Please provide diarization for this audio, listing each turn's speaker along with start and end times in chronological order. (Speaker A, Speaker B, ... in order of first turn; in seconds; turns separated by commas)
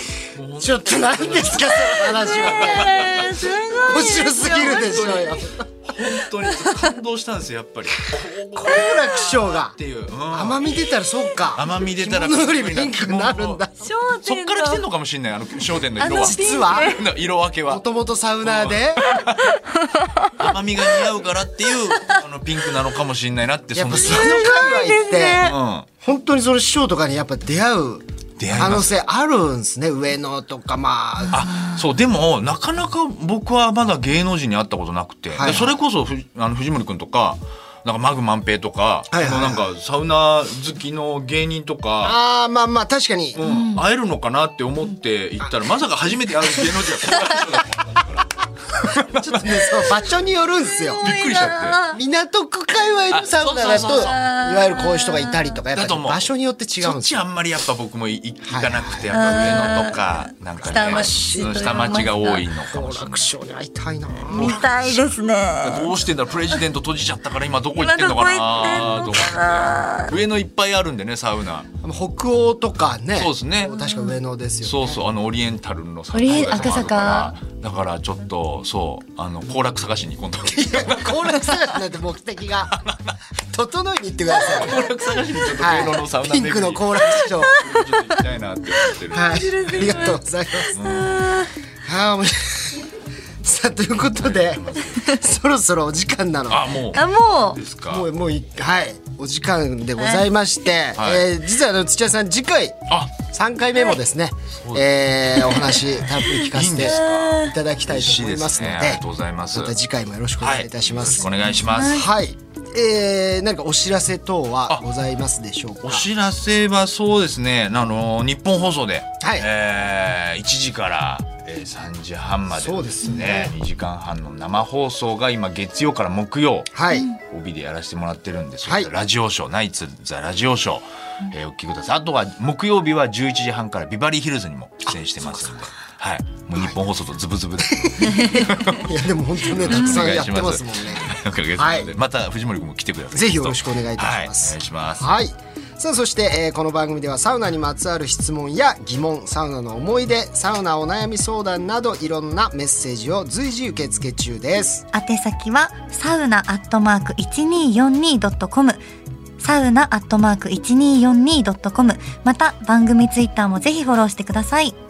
Speaker A: 0.3-3.5, Speaker B: 0.6-5.7, Speaker C: 2.2-5.2, Speaker A: 4.3-10.7, Speaker C: 6.5-6.9, Speaker B: 8.5-9.8, Speaker C: 8.7-9.0, Speaker B: 10.3-13.8, Speaker A: 11.5-13.6, Speaker C: 13.8-14.8, Speaker A: 14.2-17.8, Speaker C: 16.0-17.0, Speaker B: 16.1-17.0, Speaker B: 17.7-19.0, Speaker A: 18.4-19.5, Speaker C: 19.0-20.4, Speaker A: 20.4-24.6, Speaker C: 21.9-22.2, Speaker B: 23.8-25.5, Speaker C: 24.0-25.5, Speaker A: 25.4-25.9, Speaker B: 26.0-31.5, Speaker A: 28.4-28.9, Speaker A: 31.3-42.2, Speaker B: 35.4-35.8, Speaker B: 39.1-39.7, Speaker B: 42.0-43.4, Speaker A: 43.4-49.9, Speaker C: 43.4-43.8, Speaker B: 49.1-51.1, Speaker C: 50.7-52.0, Speaker A: 51.0-51.8, Speaker B: 51.9-57.2, Speaker A: 53.1-54.2, Speaker C: 53.9-55.4, Speaker A: 55.7-56.3, Speaker A: 56.8-63.3, Speaker B: 58.5-59.5, Speaker C: 59.1-62.5, Speaker B: 60.7-64.7, Speaker C: 64.3-65.9, Speaker A: 64.3-65.1, Speaker A: 65.6-71.7, Speaker C: 67.8-70.1, Speaker B: 71.8-75.0, Speaker A: 73.2-73.8, Speaker C: 73.7-74.2, Speaker A: 74.6-81.6, Speaker C: 76.1-77.4, Speaker B: 76.4-76.9, Speaker B: 80.5-82.8, Speaker A: 82.7-83.2, Speaker B: 83.5-84.9, Speaker C: 84.3-84.8, Speaker A: 84.5-90.0, Speaker B: 85.5-87.5, Speaker C: 87.4-88.2, Speaker C: 88.8-91.5, Speaker B: 89.1-90.7, Speaker A: 90.7-91.3, Speaker B: 91.8-96.8, Speaker A: 94.3-95.1, Speaker A: 96.5-98.1, Speaker C: 96.9-97.6, Speaker B: 97.9-109.0, Speaker C: 100.0-100.3, Speaker A: 101.0-101.3, Speaker A: 104.6-104.9, Speaker A: 105.5-109.8, Speaker C: 106.2-107.5, Speaker B: 109.5-111.3, Speaker A: 110.4-112.0, Speaker C: 111.4-112.1, Speaker B: 111.9-116.1, Speaker A: 115.8-138.9, Speaker B: 119.2-119.5, Speaker B: 122.5-123.5, Speaker B: 126.7-127.1, Speaker C: 126.9-127.2, Speaker B: 128.7-128.9, Speaker B: 135.2-135.7, Speaker B: 137.7-141.9, Speaker C: 138.1-138.7, Speaker A: 139.4-145.1, Speaker B: 143.1-154.9, Speaker C: 154.9-158.8, Speaker C: 159.4-164.8